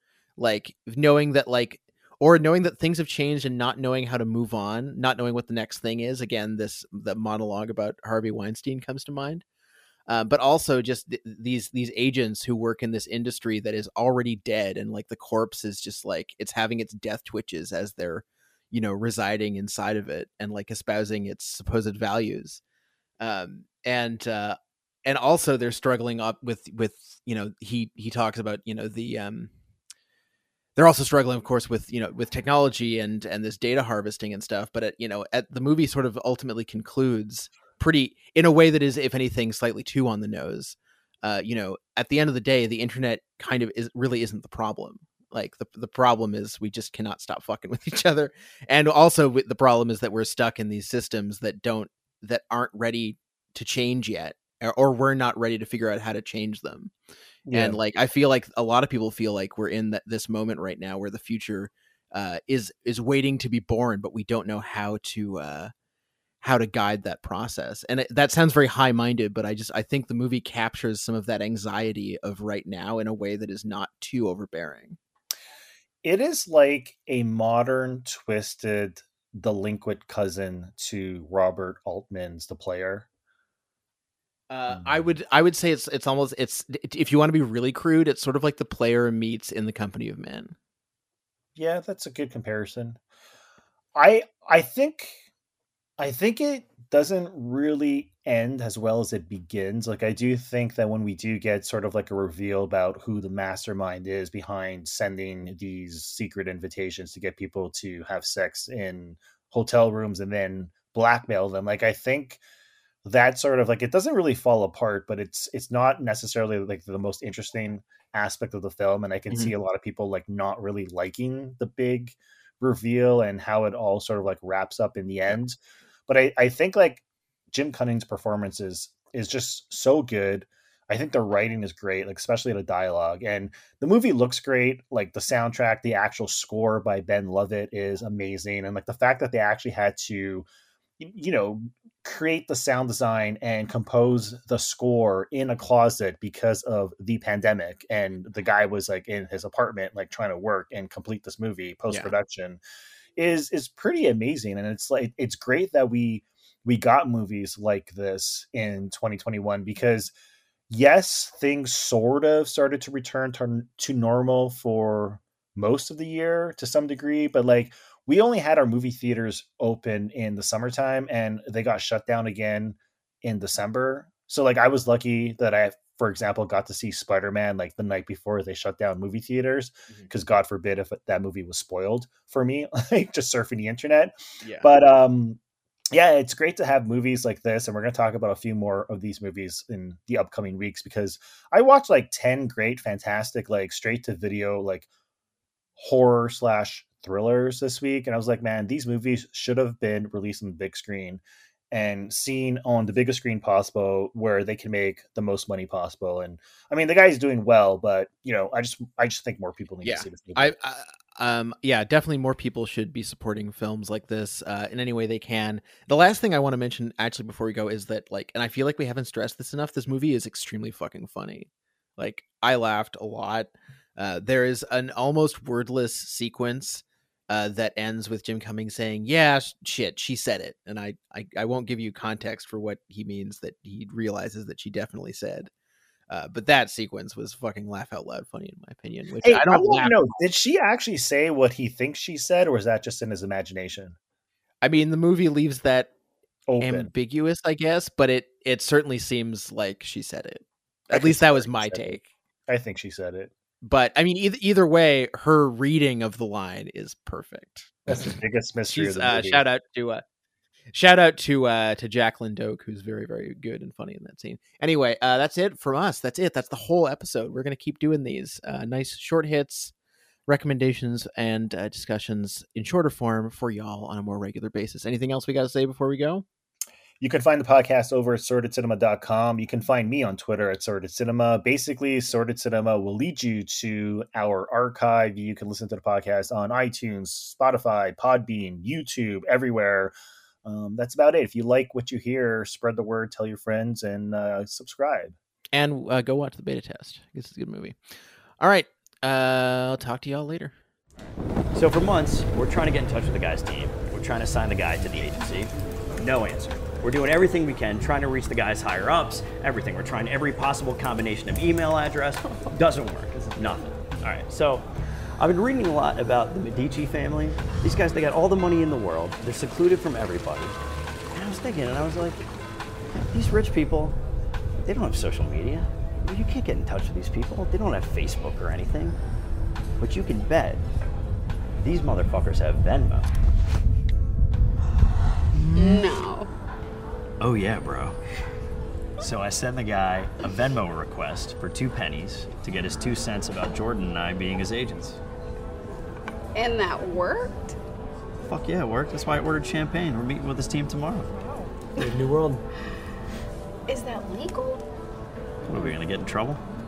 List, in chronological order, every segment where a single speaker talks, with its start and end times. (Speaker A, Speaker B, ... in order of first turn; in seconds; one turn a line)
Speaker A: 0.4-9.4
Speaker A: 10.1-22.6
Speaker A: 23.2-29.5
Speaker A: 30.8-56.9
Speaker B: 57.5-57.8
Speaker A: 57.5-65.7
Speaker A: 66.4-75.0
Speaker B: 76.0-83.1
Speaker A: 84.5-90.5
Speaker B: 84.7-85.1
Speaker B: 91.5-93.0
Speaker B: 93.9-95.2
Speaker B: 96.0-112.4
Speaker B: 113.0-140.5
Speaker B: 141.0-152.6
Speaker B: 153.2-160.1
Speaker B: 160.7-185.4
Speaker A: 184.4-184.7
Speaker B: 185.9-194.9
Speaker B: 195.8-210.5
Speaker A: 209.8-235.5
Speaker A: 236.1-240.0
Speaker B: 239.2-243.9
Speaker A: 244.6-245.9
Speaker B: 246.5-246.9
Speaker A: 246.6-252.1
Speaker B: 250.9-253.3
Speaker A: 253.6-258.0
Speaker B: 257.9-259.4
Speaker A: 258.7-260.0
Speaker A: 260.7-269.7
Speaker A: 270.3-276.2
Speaker B: 277.0-295.1
Speaker A: 295.5-300.6
Speaker C: 301.5-314.6
Speaker C: 315.2-320.6
Speaker C: 321.1-322.2
Speaker C: 322.9-324.0
Speaker C: 324.6-329.0
Speaker C: 329.8-330.6
Speaker C: 331.6-333.1
Speaker D: 335.5-336.3
Speaker C: 337.2-337.9
Speaker C: 339.0-345.0
Speaker D: 346.3-347.5
Speaker C: 348.2-351.1
Speaker D: 351.2-351.9
Speaker D: 353.7-354.6
Speaker C: 355.5-356.4